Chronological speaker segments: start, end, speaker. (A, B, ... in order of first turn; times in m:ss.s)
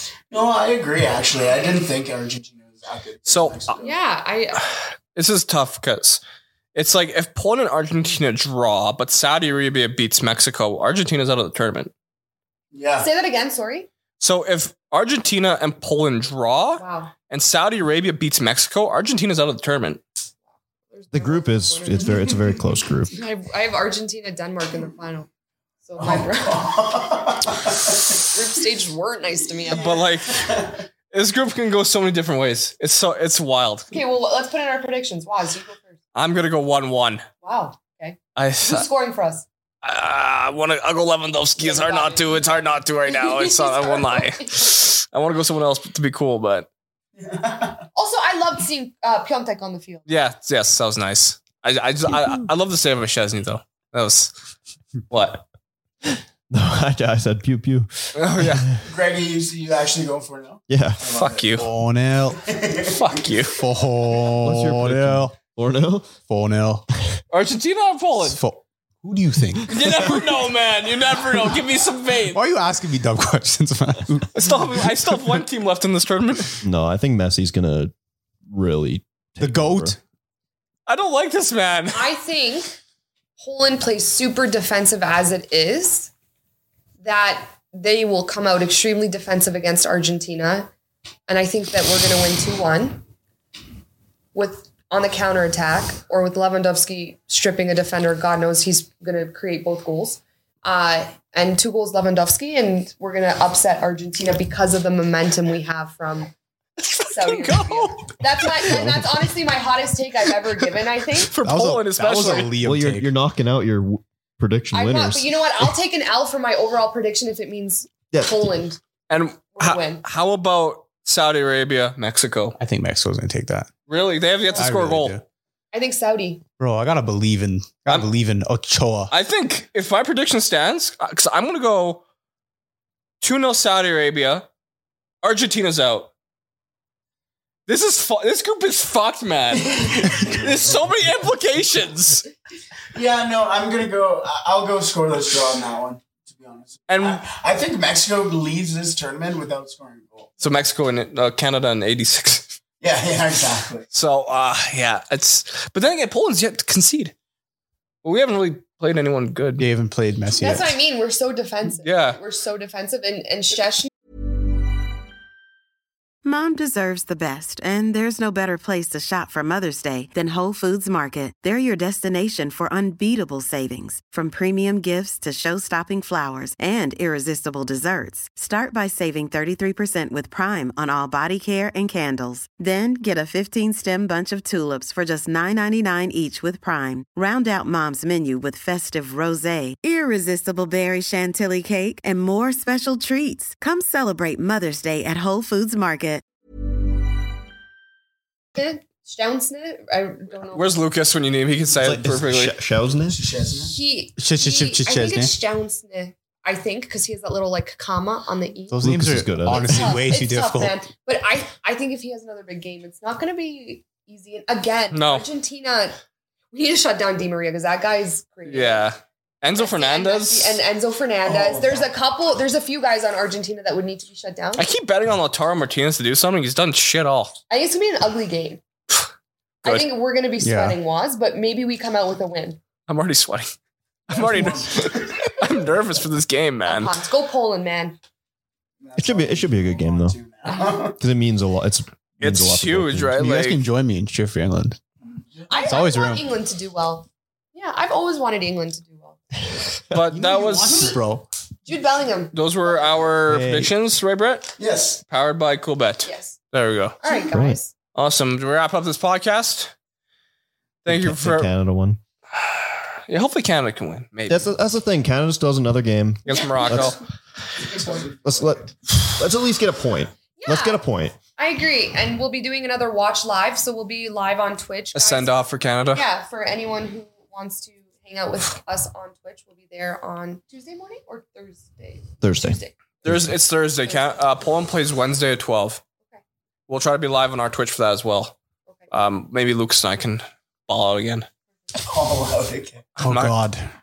0:00.3-0:04.0 A
0:03.3-0:03.7 B
0:03.8-0:04.6 C
0:04.6-0:06.2 B
0:06.7-0:11.9 B
0:12.7-0:13.1 A
0:13.0-0:13.9 C
0:14.2-0:20.0 B
0:16.8-0:17.1 C
0:20.9-0:22.1 C
0:21.1-0:23.2 D
0:21.9-0:22.6 A
0:23.1-0:25.3 C
0:25.8-0:26.7 C
0:26.0-0:28.3 A
0:28.3-0:29.8 C
0:29.6-0:30.8 A
0:29.8-0:30.5 B
0:31.1-0:33.9 B
0:33.9-0:36.0 C
0:36.1-0:37.2 B
0:37.4-0:39.4 C
0:38.4-0:38.9 B
0:39.8-0:46.7 B
0:41.6-0:44.7 C
0:47.2-0:47.8 A
0:47.9-0:50.0 C
0:50.1-0:54.3 B
0:55.1-0:55.4 B
0:56.5-0:58.6 D
0:58.2-0:58.7 B
0:58.8-1:01.6 A
1:00.7-1:01.0 D
1:01.1-1:01.7 B
1:01.6-1:02.4 E
1:02.4-1:03.5 A
1:02.9-1:03.5 B
1:03.5-1:05.4 E
1:04.4-1:06.1 D
1:06.3-1:06.8 E
1:07.3-1:08.4 B
1:08.2-1:09.8 E
1:09.7-1:12.4 B
1:12.3-1:14.6 E
1:14.3-1:16.5 B
1:16.6-1:17.9 D
1:18.5-1:20.0 D
1:19.4-1:20.0 E
1:20.9-1:22.0 B
1:21.9-1:22.8 C
1:23.4-1:26.1 C
1:27.0-1:30.7 C
1:31.3-1:33.0 C
1:34.3-1:46.3 C
1:46.8-1:48.8 B
1:47.1-1:51.3 C
1:48.7-1:49.0 D
1:51.3-1:52.5 B
1:51.4-1:53.1 E
1:52.2-1:55.7 D
1:54.7-1:58.8 C
1:58.1-1:58.6 D
1:59.1-2:02.6 B
1:59.5-2:00.0 C
2:02.6-2:03.7 E
2:03.9-2:05.2 B
2:04.5-2:05.2 E
2:05.7-2:06.4 C
2:06.6-2:09.1 E
2:09.1-2:12.0 B
2:13.2-2:14.4 B
2:15.2-2:16.1 B
2:17.7-2:22.3 B
2:19.5-2:20.5 A
2:22.9-2:30.3 A
2:26.9-2:27.2 B
2:30.4-2:32.6 B
2:32.8-2:33.9 A
2:33.9-2:37.1 B
2:38.0-2:39.6 B
2:39.6-2:40.8 E
2:40.3-2:43.9 C
2:41.8-2:42.2 B
2:46.2-3:16.2 F
3:18.6-3:20.7 C
3:20.5-3:22.5 B
3:21.7-3:23.2 D
3:23.1-3:23.7 A
3:23.7-3:28.8 C
3:24.2-3:25.3 E
3:28.7-3:30.8 E
3:28.8-3:29.9 D
3:29.5-3:36.0 C
3:34.9-3:35.2 B
3:36.5-3:38.9 C
3:38.4-3:40.6 B
3:39.6-3:44.6 C
3:41.2-3:41.9 A
3:44.6-3:47.4 B
3:47.5-3:48.6 C
3:49.6-3:49.9 B
3:49.6-3:52.6 C
3:50.4-3:50.8 E
3:52.9-3:53.5 B
3:54.1-3:56.9 B
3:54.1-3:55.4 A
3:56.7-3:58.0 C
3:58.8-4:01.0 A
3:59.0-4:00.2 D
4:00.5-4:00.7 C
4:01.0-4:03.2 D
4:02.2-4:03.6 B
4:03.2-4:04.8 E
4:05.2-4:05.7 A
4:05.5-4:09.2 C
4:05.6-4:06.2 E
4:09.9-4:11.0 B
4:10.1-4:11.2 E
4:11.6-4:13.1 C
4:12.3-4:14.6 B
4:13.3-4:13.7 D
4:14.6-4:15.0 A
4:15.1-4:17.0 B
4:16.0-4:16.3 C
4:17.0-4:17.7 C
4:17.1-4:17.6 D
4:17.9-4:19.7 B
4:20.8-4:21.5 B
4:20.9-4:22.0 D
4:22.3-4:24.5 B
4:24.3-4:27.0 D
4:26.2-4:27.0 B
4:27.6-4:28.4 A
4:28.2-4:31.2 D
4:30.4-4:30.8 C
4:31.4-4:35.4 C
4:34.9-4:36.0 B
4:35.9-4:42.7 C
4:42.2-4:43.4 D
4:43.0-4:45.8 B
4:43.8-4:44.1 C
4:46.7-4:48.4 B
4:48.9-4:51.3 B
4:51.7-4:52.9 A
4:53.0-4:53.3 B
4:53.0-4:53.7 E